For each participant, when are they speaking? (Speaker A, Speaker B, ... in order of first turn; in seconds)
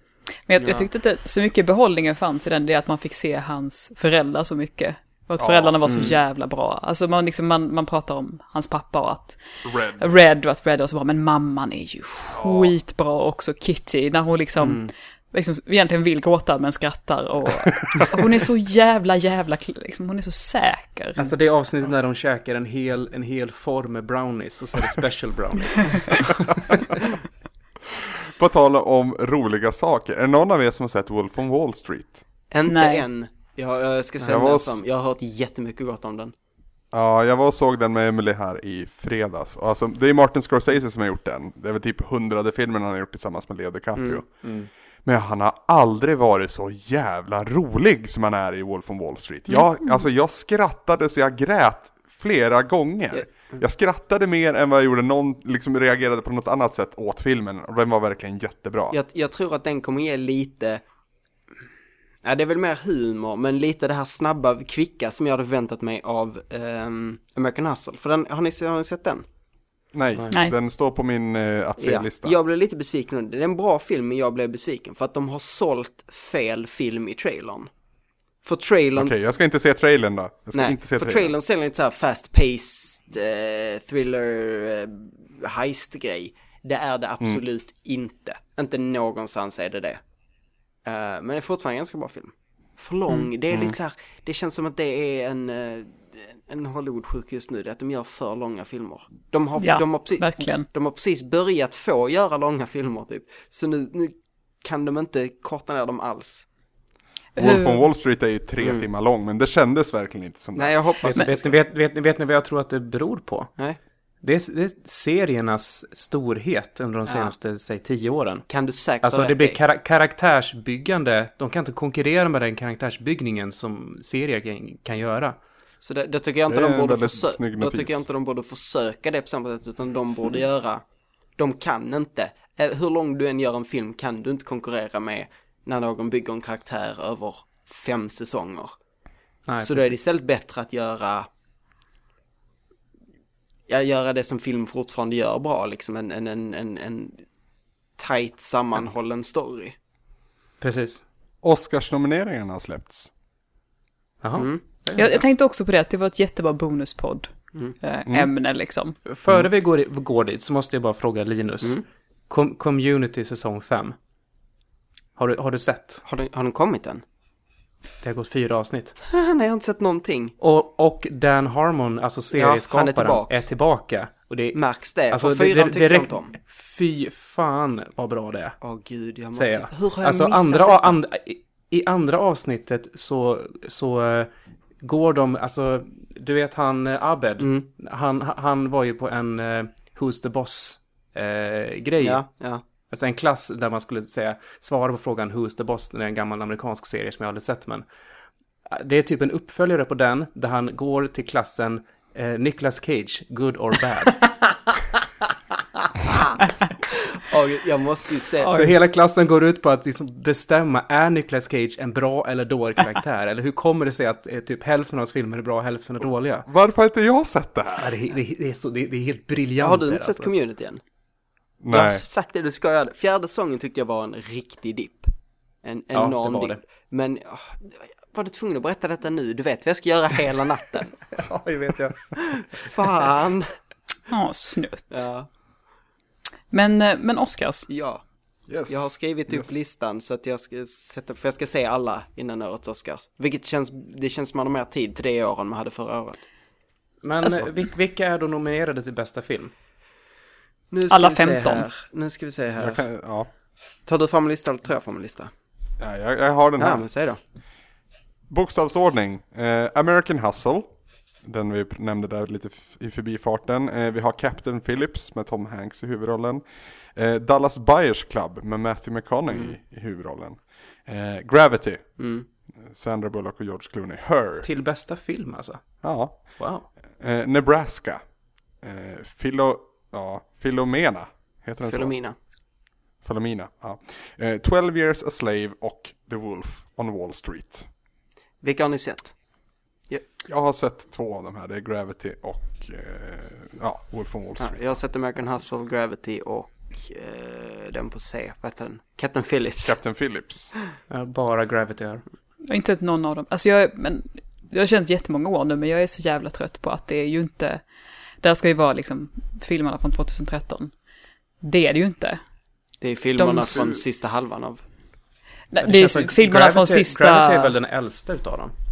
Speaker A: 0.5-9.5, 10.0-21.3, 32.7-33.0, 49.5-50.0, 99.6-100.7, 107.4-107.9, 154.9-159.0, 234.1-235.1, 236.5-237.7, 250.9-251.7, 302.5-307.6, 308.2-310.7, 311.4-312.2, 313.2-313.8, 315.5-317.5
Speaker B: 0.6-0.8, 5.9-6.1, 32.5-36.3, 44.0-44.2, 53.1-53.6, 58.9-60.8, 62.2-69.2, 71.8-77.7, 78.4-79.1, 80.5-90.0, 90.8-106.5, 108.6-108.9, 110.5-111.6, 117.1-117.3, 118.5-119.6, 125.8-130.8, 131.4-138.8, 139.6-141.3, 143.7-147.3, 148.0-149.8, 154.4-154.6, 166.1-167.0, 169.1-170.3, 172.3-173.5, 174.5-176.3, 178.6-181.0, 187.4-187.7, 192.0-192.6, 206.1-206.4, 207.2-208.6, 219.6-220.8, 221.7-225.1, 225.6-231.1, 232.4-233.5, 234.9-235.3, 237.7-238.1, 238.6-246.3, 250.7-252.9, 253.9-255.3, 256.6-257.2, 269.3-269.6, 272.0-272.3, 281.7-282.2, 288.4-289.3, 294.4-299.8, 312.8-314.6
Speaker C: 5.4-6.1, 9.6-10.2, 12.3-12.8, 27.9-32.2, 34.2-34.8, 36.9-44.5, 45.0-59.0, 69.9-72.3, 79.0-81.3, 93.5-93.8, 107.4-110.8, 126.5-128.1, 151.4-153.1, 216.5-218.0, 221.6-222.0, 238.5-239.6, 252.6-253.3, 255.8-256.8, 258.3-274.5, 275.8-278.1, 278.6-281.9, 283.0-287.7, 290.3-294.8, 299.6-300.5
Speaker D: 14.6-14.9, 21.2-27.1, 44.4-44.7, 111.0-113.5, 114.2-118.5, 119.0-125.4, 139.5-139.9, 150.6-151.0, 154.2-155.2, 159.1-163.9, 165.2-166.0, 168.0-169.0, 170.4-178.6, 179.3-197.8, 198.7-204.3, 208.4-216.5, 217.8-220.3, 225.9-226.6, 231.1-232.4, 247.0-249.5, 274.4-276.7, 300.9-302.0, 315.6-318.5